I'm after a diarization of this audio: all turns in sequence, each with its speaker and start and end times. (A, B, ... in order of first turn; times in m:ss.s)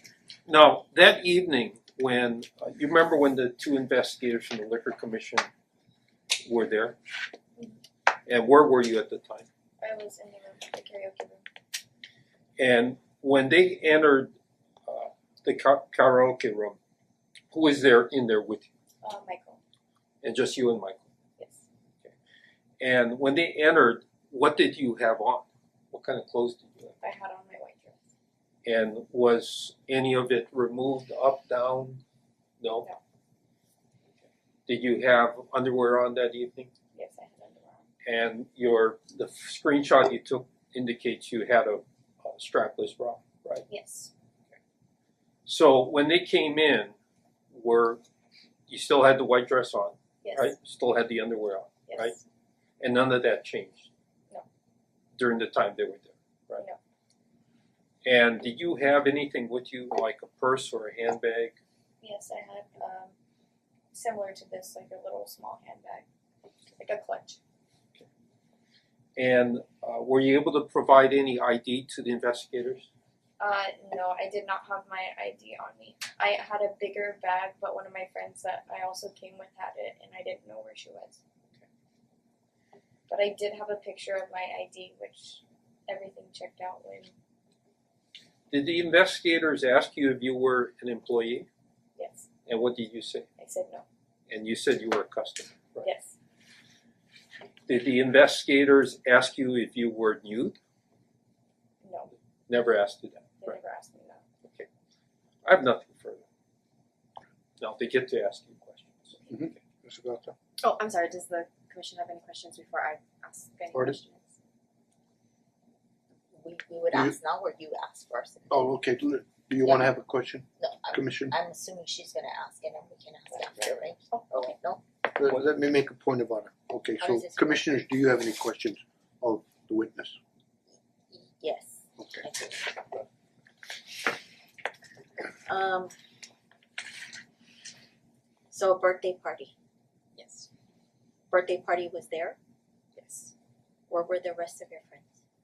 0:00.5-0:05.5 A
0:06.4-0:07.0 A
0:08.2-0:09.4 A
0:09.8-0:11.4 B
0:12.6-0:14.3 A
0:14.8-0:16.8 A
0:17.5-0:18.6 A
0:19.0-0:19.6 B
0:20.2-0:21.0 A
0:22.8-0:27.0 A
0:27.0-0:28.0 B
0:28.6-0:32.0 A
0:32.6-0:32.9 A
0:34.7-0:36.7 A
0:36.9-0:37.8 B
0:38.0-0:43.6 A
0:43.7-0:44.1 B
0:45.4-0:46.9 A
0:47.5-0:48.0 A
0:48.7-0:52.2 A
0:50.2-0:50.5 B
0:51.9-0:52.2 B
0:52.8-0:53.9 A
0:55.2-0:56.6 A
0:58.0-1:01.6 A
1:02.0-1:03.1 B
1:03.9-1:06.0 B
1:06.7-1:07.4 B
1:09.2-1:12.9 A
1:13.4-1:21.2 B
1:23.1-1:27.1 B
1:28.5-1:31.5 A
1:32.0-1:32.3 B
1:32.5-1:33.2 A
1:33.4-1:33.8 B
1:34.3-1:35.9 A
1:35.8-1:36.1 B
1:37.7-1:40.6 A
1:41.8-1:42.1 B
1:42.5-1:43.6 A
1:43.4-1:44.2 B
1:44.4-1:44.7 A
1:45.4-1:46.2 A
1:47.6-1:49.2 A
1:49.3-1:50.3 C
1:50.6-1:54.2 D
1:53.7-1:54.0 C
1:56.3-1:58.7 E
1:58.5-2:01.3 C
1:59.6-1:59.9 E
2:00.6-2:04.8 E
2:03.3-2:04.4 B
2:05.1-2:10.2 C
2:07.0-2:07.6 E
2:11.1-2:13.0 E
2:12.0-2:12.2 C
2:15.4-2:15.9 E
2:18.5-2:19.5 E
2:20.2-2:20.5 B
2:21.3-2:22.4 E
2:22.9-2:23.3 B
2:23.9-2:25.1 E